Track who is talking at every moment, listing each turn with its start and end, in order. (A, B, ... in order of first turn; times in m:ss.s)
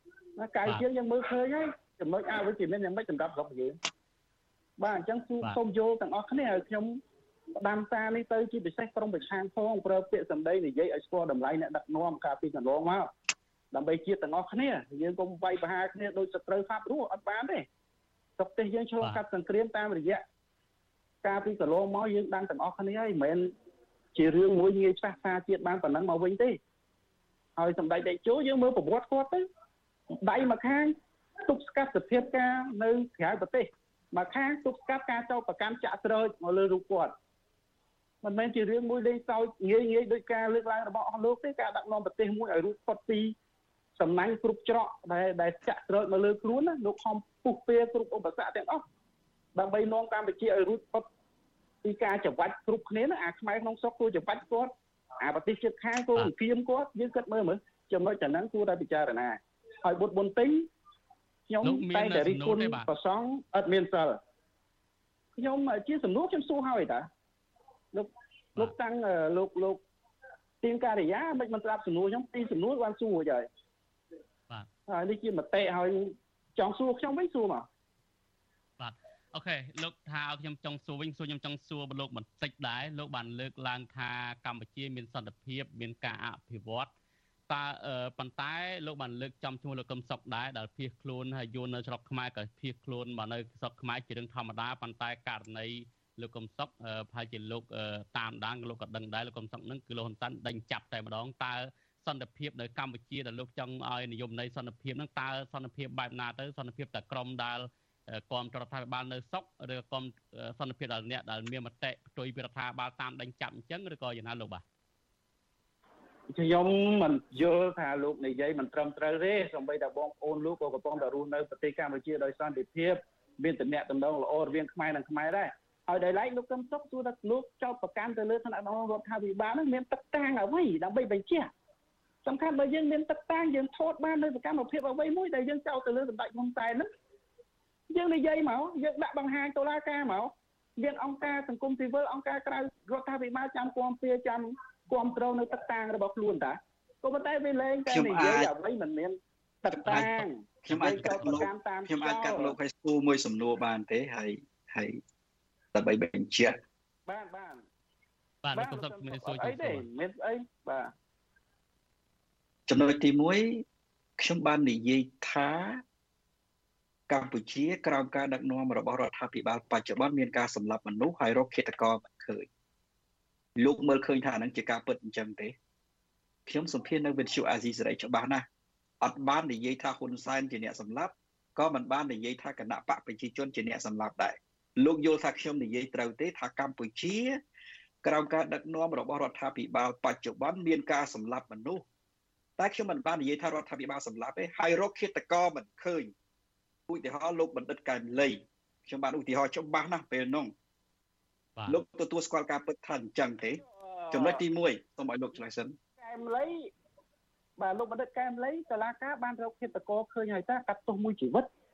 0:00.4-0:03.8 A
0:04.8-0:07.0 A
0:07.6-0:13.1 A
0:13.7-0:17.7 A
0:18.4-0:20.2 A
0:21.2-0:23.5 A
0:24.1-0:26.6 A
0:27.6-0:29.4 A
0:30.1-0:37.1 A
0:38.2-0:43.3 A
0:44.0-0:48.8 A
0:49.5-0:51.0 A
0:51.8-1:00.7 A
1:01.5-1:04.2 A
1:01.6-1:02.8 B
1:05.4-1:07.1 A
1:07.9-1:09.8 A
1:10.6-1:13.5 A
1:14.9-1:17.7 A
1:18.8-1:26.9 B
1:27.5-1:54.6 B
1:56.3-2:11.5 A
2:12.2-2:16.9 A
2:17.9-2:32.5 A
2:27.9-2:28.5 C
2:29.7-2:35.0 C
2:35.7-2:36.6 C
2:37.1-2:37.6 A
2:38.4-2:39.8 B
2:38.5-2:40.9 A
2:42.7-2:43.6 C
2:44.2-2:45.8 C
2:47.1-2:52.5 C
2:53.6-2:55.5 C
2:56.5-2:58.4 C
2:59.0-3:07.4 C
3:08.0-3:11.8 C
3:12.6-3:16.1 C
3:16.9-3:20.5 C
3:21.6-3:21.8 B
3:21.7-3:25.8 C
3:23.7-3:24.4 A
3:26.0-3:26.7 A
3:27.6-3:31.5 A